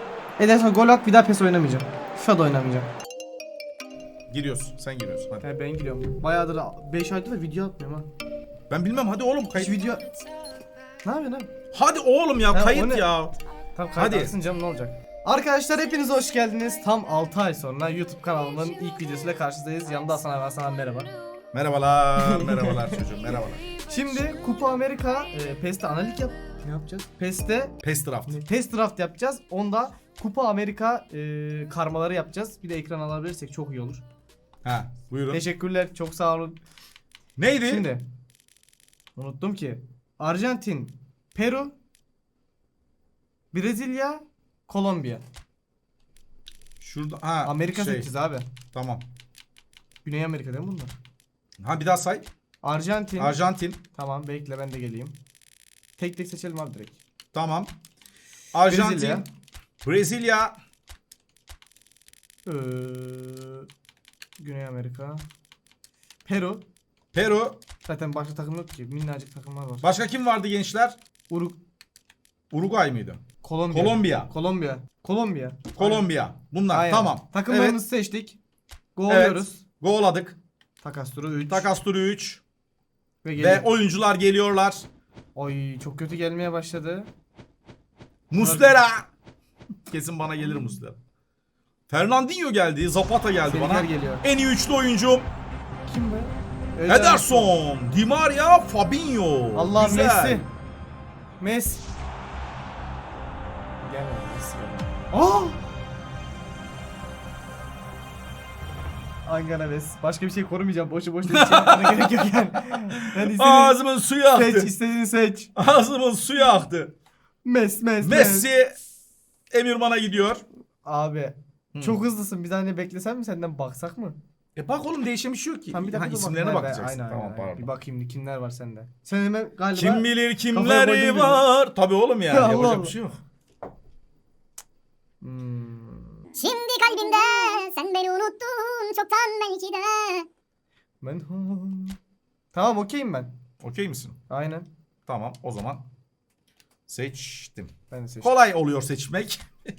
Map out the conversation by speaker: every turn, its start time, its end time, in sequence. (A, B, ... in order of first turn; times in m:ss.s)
0:00.4-0:02.9 A
0:04.3-0:05.4 B
0:05.4-0:08.1 A
0:08.7-0:09.7 B
0:09.5-0:10.1 A
0:11.0-0:11.5 A
0:11.7-0:13.4 B
0:12.5-0:13.1 A
0:13.7-0:21.1 A
0:14.0-0:14.3 B
0:21.5-0:23.6 B
0:22.2-0:23.0 A
0:23.8-0:34.0 A
0:27.8-0:28.4 B
0:34.6-0:35.4 B
0:35.3-0:36.6 A
0:37.4-0:37.9 B
0:37.6-0:38.0 A
0:39.2-0:41.7 A
0:43.5-0:45.2 A
0:46.8-0:48.1 B
0:47.4-0:48.5 A
0:48.7-0:49.1 B
0:50.0-0:50.9 A
0:51.6-0:52.3 B
0:52.6-0:53.4 A
0:53.2-0:53.8 B
0:53.9-0:55.2 A
0:56.0-0:57.0 A
0:57.3-0:57.7 B
0:58.5-0:59.3 B
0:58.7-0:59.2 A
0:59.8-1:00.6 B
1:02.4-1:03.7 A
1:04.4-1:05.2 A
1:06.2-1:06.6 A
1:07.1-1:07.6 B
1:07.8-1:09.8 A
1:09.8-1:11.0 B
1:11.3-1:11.6 A
1:12.5-1:14.3 B
1:13.4-1:16.1 A
1:15.7-1:17.8 B
1:16.7-1:18.4 A
1:18.9-1:19.6 A
1:19.1-1:20.4 B
1:20.8-1:21.7 A
1:21.5-1:22.4 B
1:23.2-1:23.7 A
1:23.4-1:24.9 B
1:25.3-1:27.1 A
1:28.3-1:29.1 B
1:28.3-1:28.8 A
1:29.9-1:31.0 B
1:31.9-1:35.3 B
1:33.4-1:34.3 A
1:35.8-1:37.5 A
1:36.9-1:40.4 B
1:39.5-1:40.5 A
1:41.4-1:41.8 A
1:43.8-1:45.6 A
1:49.2-1:53.8 A
1:51.3-1:52.4 B
1:52.9-1:54.7 B
1:54.3-1:55.5 A
1:55.5-1:56.9 B
1:57.4-1:58.5 A
1:58.0-1:58.7 B
1:59.5-2:00.4 B
2:00.8-2:04.2 A
2:01.7-2:02.0 B
2:04.6-2:07.7 B
2:05.7-2:11.5 A
2:09.7-2:13.2 B
2:12.3-2:12.9 A
2:15.2-2:16.3 A
2:16.4-2:20.3 C
2:21.0-2:22.0 A
2:22.5-2:23.3 A
2:23.6-2:24.2 B
2:24.3-2:24.7 A
2:25.1-2:25.8 B
2:26.9-2:29.5 B
2:27.9-2:28.3 A